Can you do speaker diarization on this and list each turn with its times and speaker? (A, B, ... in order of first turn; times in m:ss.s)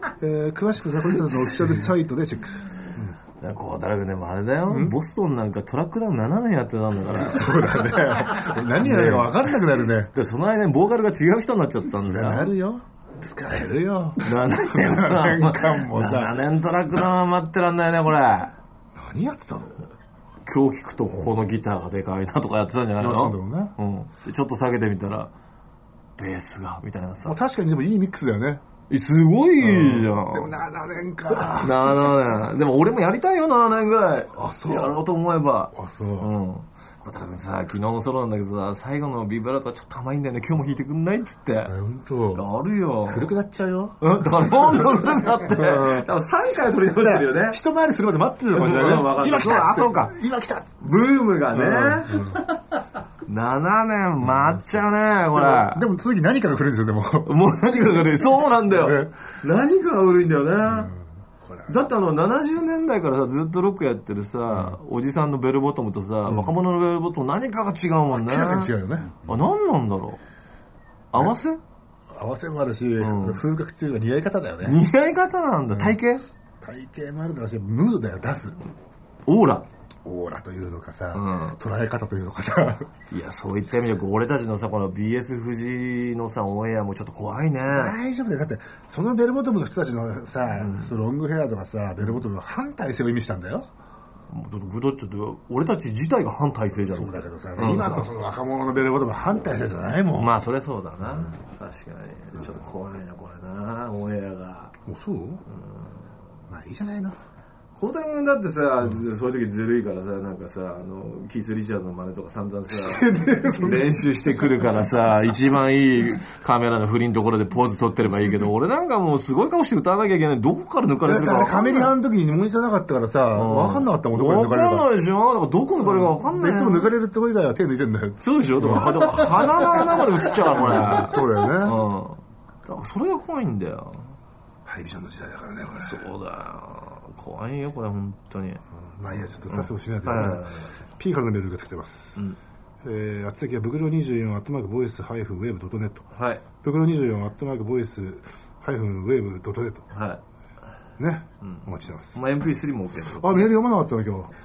0:00.2-0:03.2 A
0:03.4-0:09.4 B
0:04.7-0:05.0 A
0:07.1-0:10.1 A
0:10.1-0:12.5 B
0:12.0-0:16.4 A
0:14.2-0:18.5 B
0:19.0-0:19.8 A
0:20.4-0:25.3 B
0:23.0-0:23.7 A
0:26.2-0:27.4 B
0:27.2-0:28.6 A
0:28.9-0:30.5 B
0:29.6-0:32.0 A
0:31.3-0:41.8 B
0:34.3-0:35.0 A
0:35.7-0:36.3 A
0:41.7-0:42.4 A
0:42.3-0:43.3 B
0:43.0-0:46.1 A
0:44.0-0:47.6 B
0:46.9-0:50.9 A
0:48.5-0:50.1 B
0:50.8-0:52.4 B
0:51.5-0:52.4 A
0:53.2-0:55.8 B
0:54.2-0:54.8 A
0:55.3-0:57.8 A
0:57.2-1:00.9 B
0:58.6-0:59.1 A
1:00.6-1:01.9 A
1:01.7-1:10.2 B
1:04.5-1:04.8 A
1:06.3-1:06.5 A
1:08.1-1:09.3 A
1:11.1-1:11.6 B
1:12.1-1:14.8 A
1:13.0-1:13.4 B
1:14.6-1:16.2 B
1:15.7-1:16.0 A
1:16.6-1:18.6 A
1:19.3-1:19.6 B
1:20.0-1:22.9 A
1:21.1-1:21.6 B
1:23.1-1:27.9 B
1:27.7-1:33.7 A
1:30.6-1:30.9 B
1:34.3-1:38.1 B
1:36.8-1:40.3 A
1:40.1-1:44.8 B
1:44.8-1:45.4 A
1:45.5-1:46.0 B
1:46.5-1:47.2 A
1:47.8-2:01.9 B
1:52.7-1:54.0 A
2:01.0-2:04.9 A
2:03.3-2:06.9 B
2:05.8-2:11.8 A
2:08.2-2:14.1 B
2:14.6-2:16.1 A
2:15.8-2:18.6 B
2:18.8-2:22.2 A
2:19.5-2:20.7 B
2:22.8-2:26.1 A
2:26.1-2:26.4 B
2:26.6-2:29.8 A
2:29.9-2:30.2 B
2:31.0-2:32.2 A
2:32.1-2:33.5 B
2:33.1-2:34.3 A